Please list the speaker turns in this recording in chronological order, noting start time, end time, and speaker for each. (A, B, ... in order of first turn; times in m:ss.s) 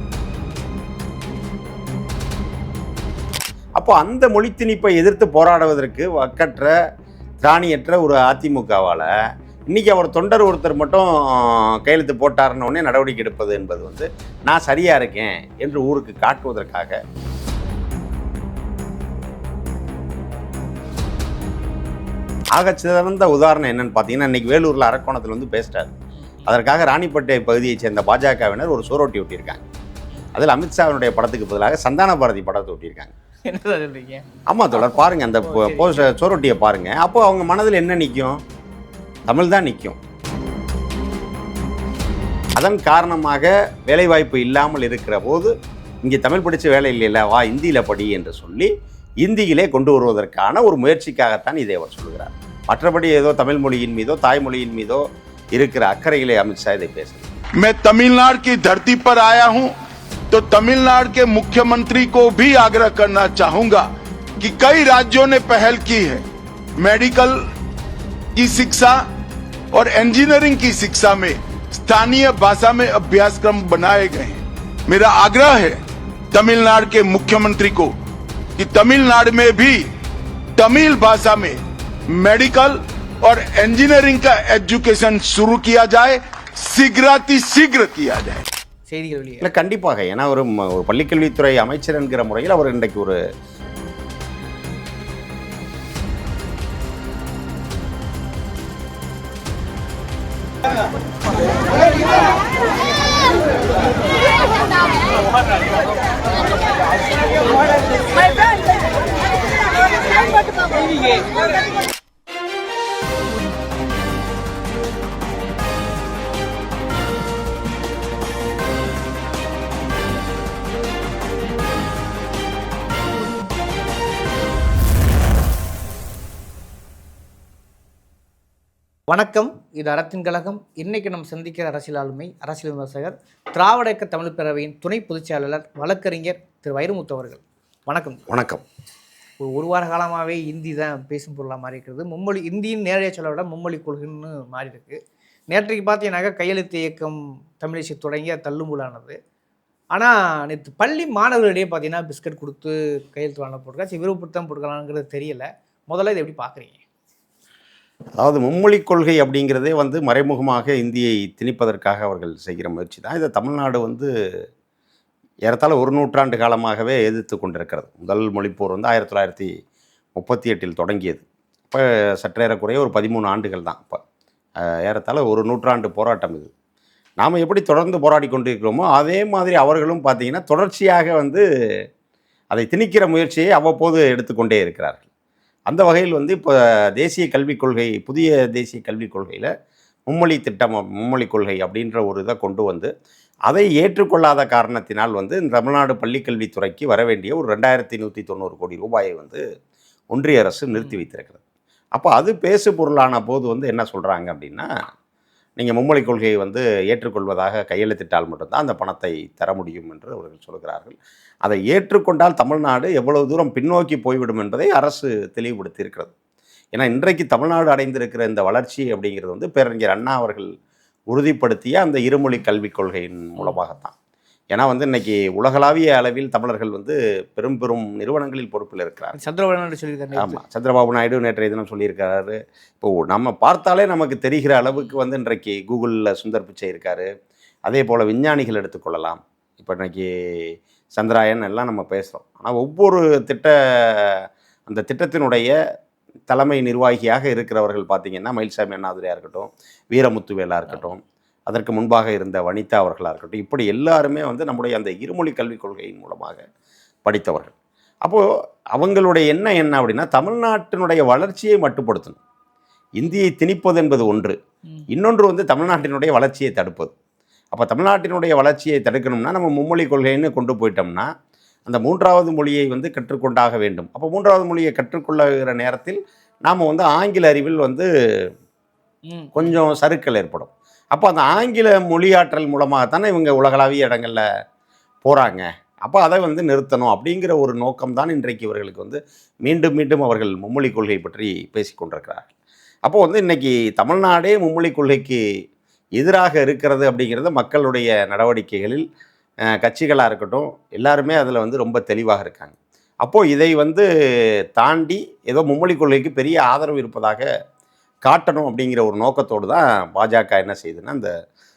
0:03.8-0:06.7 A
0:07.4-0:09.1 A
0:09.7-0:17.0 A
0:22.5-0:25.9 A
0:26.5-0:29.6 A
0:30.4-0:33.1 A
0:33.5-0:36.1 B
0:34.5-0:38.4 A
0:39.3-0:40.0 A
0:42.6-0:45.5 A
0:46.0-0:48.7 A
0:49.2-0:55.0 A
0:55.6-0:57.3 A
0:57.6-0:59.7 C
1:00.3-1:03.9 C
1:04.4-1:06.2 C
1:06.8-1:07.4 C
1:08.4-1:09.0 C
1:09.7-1:15.8 C
1:16.3-1:17.9 C
1:18.6-1:19.9 C
1:20.6-1:21.6 C
1:22.1-1:28.4 C
1:28.9-1:29.4 B
1:29.4-1:33.2 A
2:09.1-2:18.2 B
2:18.3-2:18.6 A
2:19.4-2:29.2 B
2:30.0-2:36.8 B
2:38.2-2:44.1 A
2:45.5-2:49.5 A
2:50.2-2:54.0 A
2:54.6-2:56.5 A
2:57.2-3:01.4 A
3:02.5-3:05.1 A
3:05.7-3:09.5 A
3:10.1-3:12.9 A
3:13.5-3:19.4 A
3:20.1-3:21.4 A
3:22.0-3:24.7 A
3:25.6-3:36.1 A
3:36.8-3:40.5 A
3:41.1-3:43.9 A
3:44.5-3:49.2 A
3:49.1-3:50.4 B
3:50.2-3:57.1 A
3:57.7-4:00.0 A
4:01.0-4:05.5 A
4:06.3-4:16.4 A
4:17.0-4:18.2 A
4:18.8-4:22.2 A
4:23.0-4:24.4 A
4:24.9-4:26.9 A
4:27.5-4:31.1 A
4:31.7-4:37.9 A
4:39.1-4:39.5 B
4:39.4-4:44.2 A
4:45.0-4:52.3 A
4:52.8-4:55.2 A
4:56.0-4:58.8 A
4:59.6-5:03.8 A
5:04.6-5:07.2 A
5:08.1-5:11.1 A